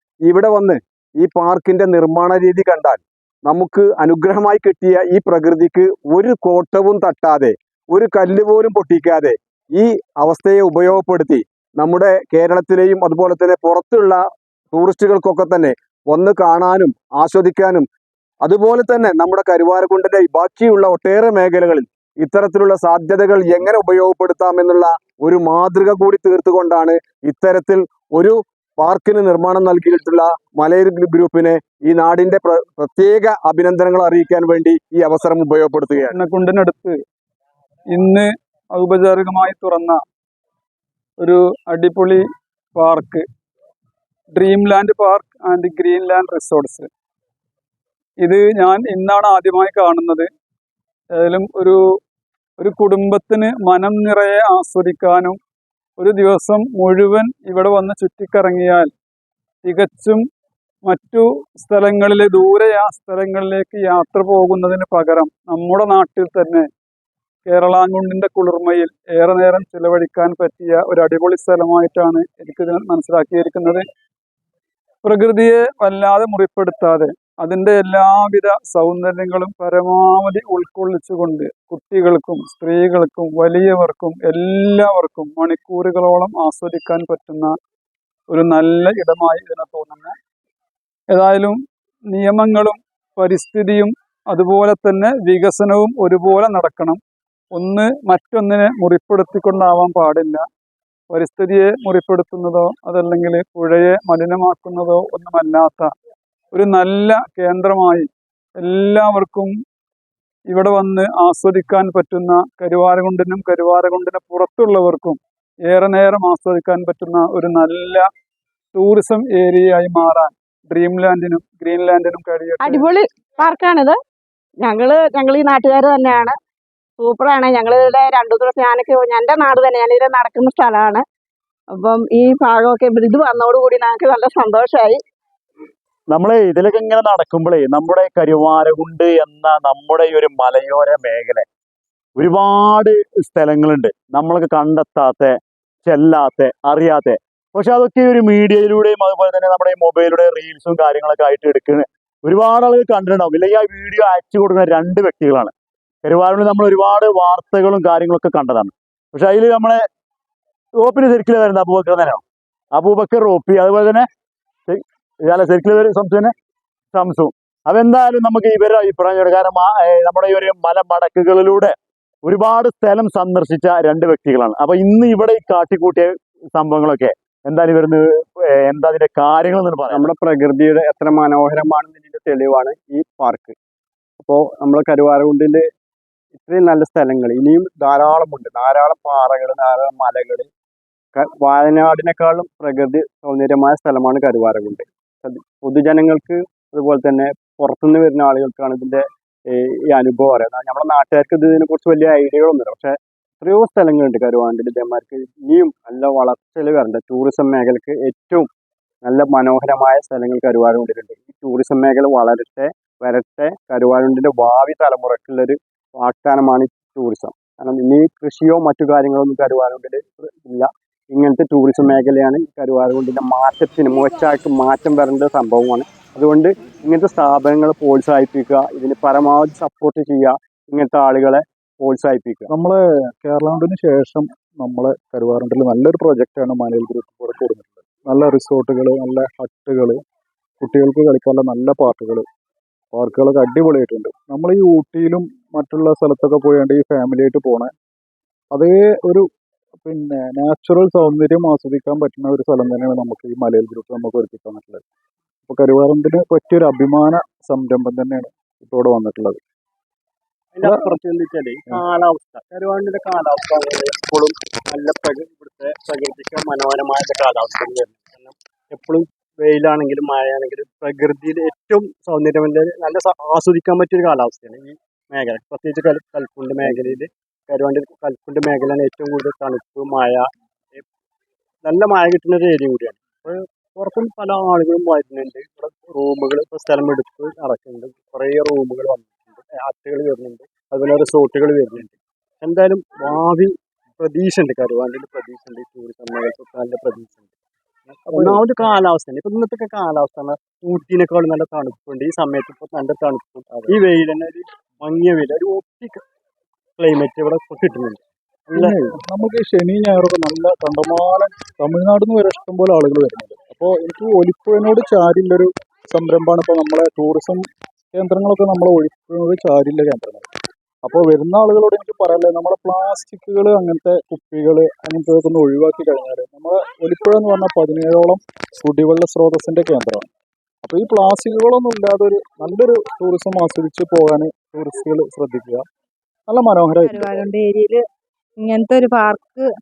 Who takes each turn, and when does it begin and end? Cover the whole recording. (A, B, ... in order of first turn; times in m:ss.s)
0:00.2-0:14.2 A
0:14.7-0:17.9 A
0:18.4-0:36.2 A
0:35.9-0:37.0 B
0:37.9-0:40.0 B
0:41.2-0:42.2 B
0:42.8-0:43.2 B
0:44.3-0:46.9 B
0:48.2-0:50.3 B
0:51.2-0:51.8 B
0:52.6-0:55.4 B
0:56.0-0:58.9 B
0:59.6-1:00.2 B
1:00.8-1:06.7 B
1:07.5-1:13.8 B
1:15.0-1:27.6 B
1:28.3-1:30.2 B
1:31.1-1:31.6 B
1:32.1-1:37.0 B
1:37.6-1:40.4 B
1:41.1-1:45.9 B
1:46.5-1:48.1 B
1:48.6-1:49.5 B
1:50.5-1:58.1 B
1:58.7-2:02.9 B
2:02.6-2:03.9 C
2:04.6-2:06.3 C
2:07.0-2:11.0 C
2:11.8-2:15.0 C
2:16.1-2:21.4 D
2:22.2-2:25.4 D
2:25.9-2:35.5 D
2:36.0-2:39.8 D
2:40.8-2:42.2 D
2:42.7-2:44.1 D
2:44.7-2:46.3 D
2:46.9-2:51.7 D
2:52.2-2:58.0 D
2:58.6-3:00.1 D
2:59.9-3:03.6 E
3:04.2-3:05.7 E
3:06.4-3:10.5 E
3:11.1-3:28.5 E
3:29.0-3:52.5 E
3:52.5-4:00.0 F
4:00.6-4:02.2 F
4:02.9-4:07.7 F
4:08.5-4:09.2 F
4:09.8-4:14.8 F
4:15.5-4:19.4 F
4:20.5-4:40.8 E
4:20.6-4:20.9 F
4:41.6-4:57.2 E
4:57.9-5:06.0 E
4:58.1-4:58.4 F
5:03.5-5:03.8 F
5:06.8-5:08.8 E
5:08.6-5:20.3 F
5:20.8-5:30.1 F
5:30.6-5:35.6 F
5:36.3-5:37.1 F
5:36.8-5:37.8 G
5:38.4-5:39.4 G